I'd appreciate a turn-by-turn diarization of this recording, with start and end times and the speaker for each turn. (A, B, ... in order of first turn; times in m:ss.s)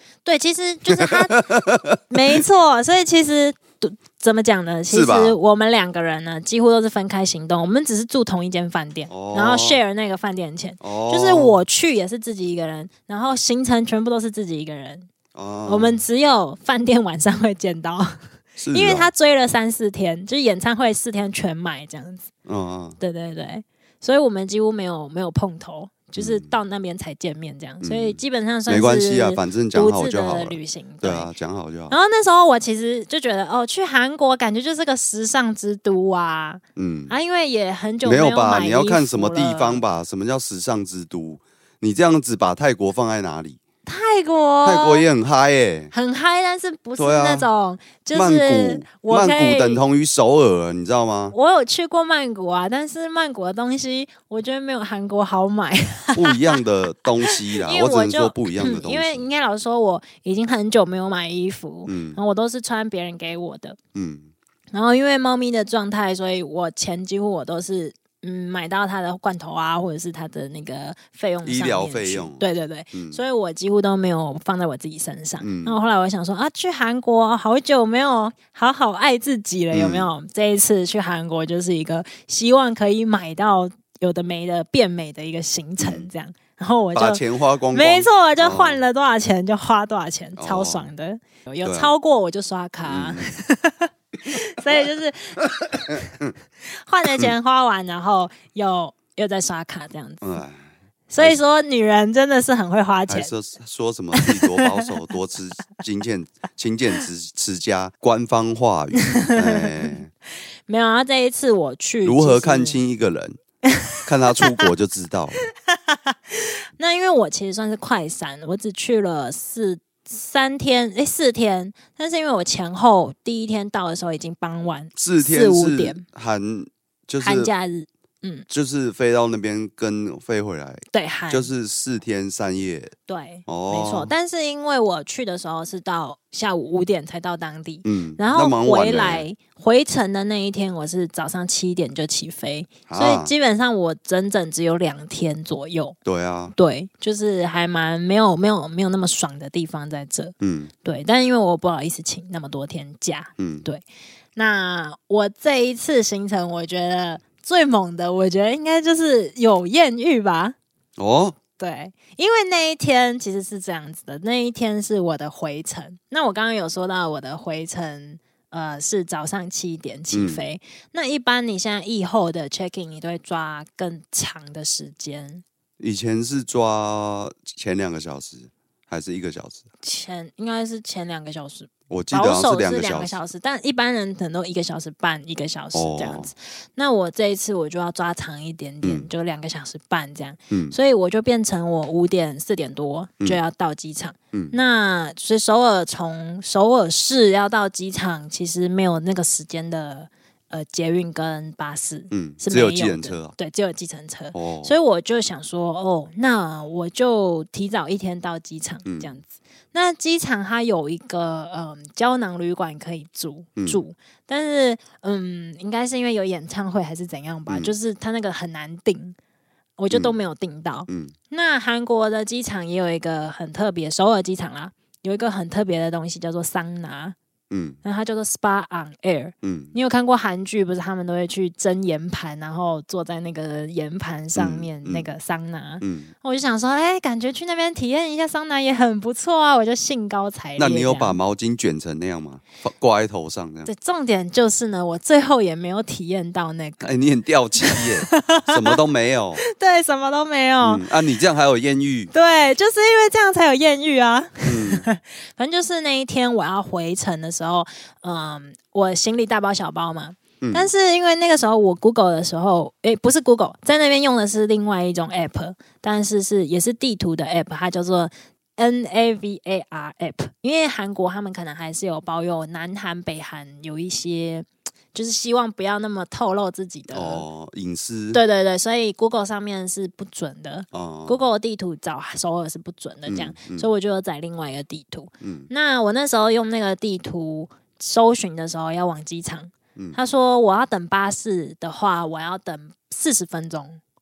0:00.2-0:01.5 A
0:00.9-0:02.4 B
0:02.1-0:15.1 A
0:04.9-0:05.4 B
0:09.1-0:09.8 B
0:10.8-0:11.6 B
0:15.3-0:16.0 B
0:15.7-0:18.2 A
0:18.6-0:19.1 B
0:18.7-0:22.3 A
0:22.5-0:23.0 B
0:23.0-0:31.3 A
0:26.2-0:26.5 B
0:27.8-0:32.0 B
0:31.9-0:39.8 A
0:36.8-0:37.1 B
0:38.0-0:43.6 B
0:43.8-0:45.1 A
0:44.6-0:45.9 B
0:45.9-0:49.8 A
0:47.0-0:47.5 B
0:48.1-0:51.4 B
0:51.3-0:56.6 A
0:56.2-0:59.2 B
0:57.2-1:03.8 A
1:01.9-1:02.2 B
1:04.0-1:04.3 B
1:04.7-1:35.4 A
1:11.4-1:13.2 B
1:15.4-1:15.8 B
1:19.7-1:20.1 B
1:25.8-1:26.1 B
1:26.9-1:28.8 B
1:30.4-1:30.9 B
1:31.6-1:31.9 B
1:32.8-1:33.4 B
1:35.6-1:36.3 B
1:36.7-1:40.4 A
1:40.2-1:40.6 B
1:41.1-1:43.3 A
1:43.1-1:50.1 B
1:44.2-1:44.9 A
1:49.0-1:49.9 A
1:50.7-1:52.8 A
1:52.0-1:53.4 B
1:53.7-1:54.7 A
1:54.0-1:55.5 B
1:55.8-2:06.0 A
2:05.0-2:07.5 B
2:07.2-2:08.5 A
2:08.5-2:12.9 B
2:10.9-2:11.5 A
2:13.1-2:26.0 A
2:13.5-2:14.1 B
2:17.8-2:19.2 B
2:22.9-2:23.3 B
2:26.0-2:26.5 B
2:26.6-2:33.8 A
2:30.4-2:30.7 B
2:33.4-2:33.7 B
2:34.4-2:40.6 A
2:41.0-2:41.4 B
2:41.6-2:55.4 A
2:50.1-2:50.5 B
2:55.8-2:59.6 B
2:59.8-3:39.2 A
3:01.9-3:03.2 B
3:05.7-3:06.3 B
3:08.8-3:09.1 B
3:10.5-3:10.8 B
3:22.1-3:23.3 B
3:24.3-3:24.8 B
3:28.8-3:29.2 B
3:37.5-3:37.7 B
3:39.8-3:47.2 A
3:40.9-3:41.1 B
3:47.5-3:47.8 B
3:47.8-4:01.2 A
3:49.4-3:49.8 B
3:54.4-3:55.1 B
3:55.8-3:56.1 B
4:00.6-4:03.7 B
4:03.7-4:06.9 A
4:06.8-4:09.4 B
4:07.6-4:08.8 A
4:09.4-4:10.9 A
4:10.6-4:12.1 B
4:12.1-4:37.2 A
4:14.4-4:14.9 B
4:20.4-4:20.7 B
4:36.9-4:38.2 B
4:38.1-4:53.8 A
4:40.7-4:41.2 B
4:43.1-4:43.7 B
4:45.2-4:45.5 B